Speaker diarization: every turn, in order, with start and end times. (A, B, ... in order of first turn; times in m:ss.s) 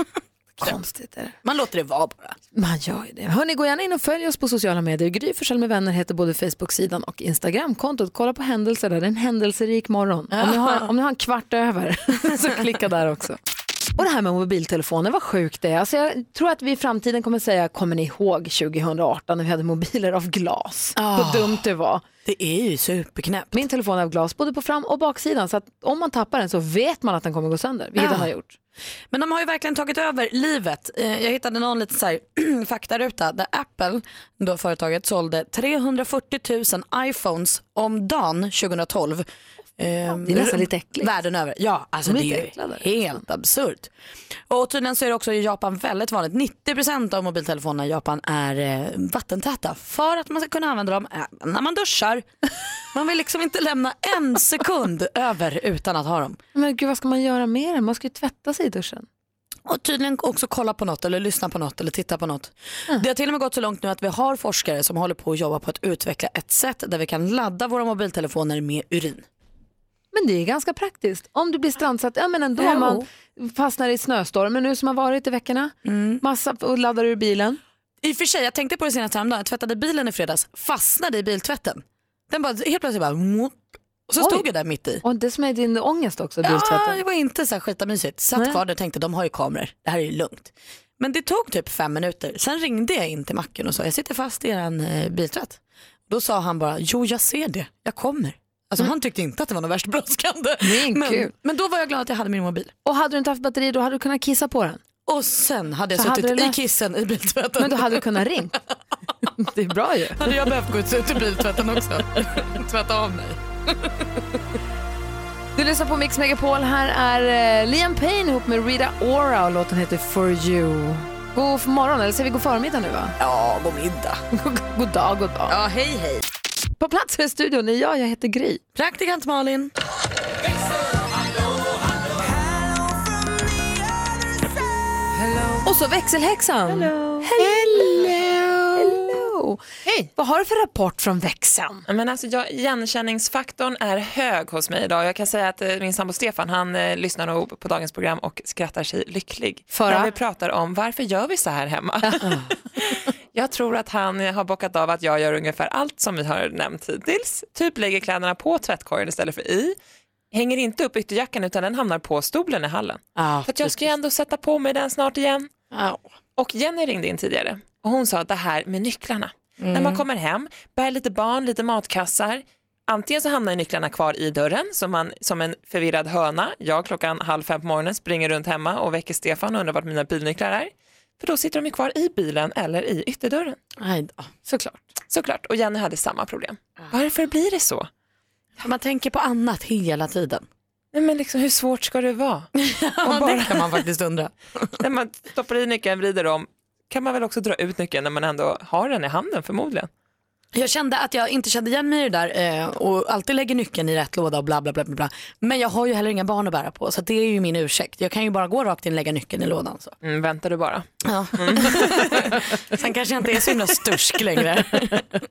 0:00.6-0:01.4 A
0:01.4-0:02.4 B
0:02.6-0:13.4 A
0:10.3-0:10.9 B
0:14.0-0:22.0 A
0:21.0-0:21.7 B
0:22.2-0:23.7 B
0:23.5-0:28.6 A
0:28.0-0:28.3 B
0:29.1-0:39.2 B
0:39.8-0:43.9 B
0:40.2-0:41.1 A
0:42.1-0:42.8 A
0:44.5-0:52.3 B
0:52.9-0:56.4 B
0:56.6-0:59.1 A
0:59.7-1:09.3 B
1:10.1-1:17.6 A
1:12.6-1:13.0 B
1:15.8-1:16.2 B
1:18.0-1:25.0 B
1:24.2-1:24.4 A
1:25.0-1:27.0 A
1:26.4-1:35.6 B
1:36.1-1:42.7 B
1:40.6-1:41.3 A
1:42.8-1:44.8 A
1:45.1-1:48.5 B
1:46.0-1:46.6 A
1:47.6-1:48.5 A
1:49.4-1:50.3 A
1:50.2-1:53.9 B
1:55.6-2:03.2 A
2:03.2-2:04.2 B
2:04.3-2:05.5 A
2:05.5-2:06.2 B
2:06.8-2:08.6 A
2:08.8-2:09.7 B
2:15.6-2:21.8 A
2:16.7-2:18.8 B
2:21.9-2:32.2 C
2:29.7-2:30.1 A
2:32.2-2:32.5 B
2:32.8-2:39.8 C
2:40.3-2:45.5 C
2:43.2-2:43.9 B
2:45.7-2:46.1 B
2:46.4-3:03.6 C
2:49.6-2:50.0 B
3:03.8-3:04.3 B
3:04.5-3:04.8 A
3:05.1-3:07.9 C
3:08.6-3:10.4 B
3:10.9-3:12.5 C
3:12.6-3:14.3 B
3:13.1-3:13.7 C
3:14.8-3:19.9 C
3:20.5-3:30.0 B
3:30.0-3:30.9 C
3:31.0-3:35.0 B
3:31.4-3:31.8 C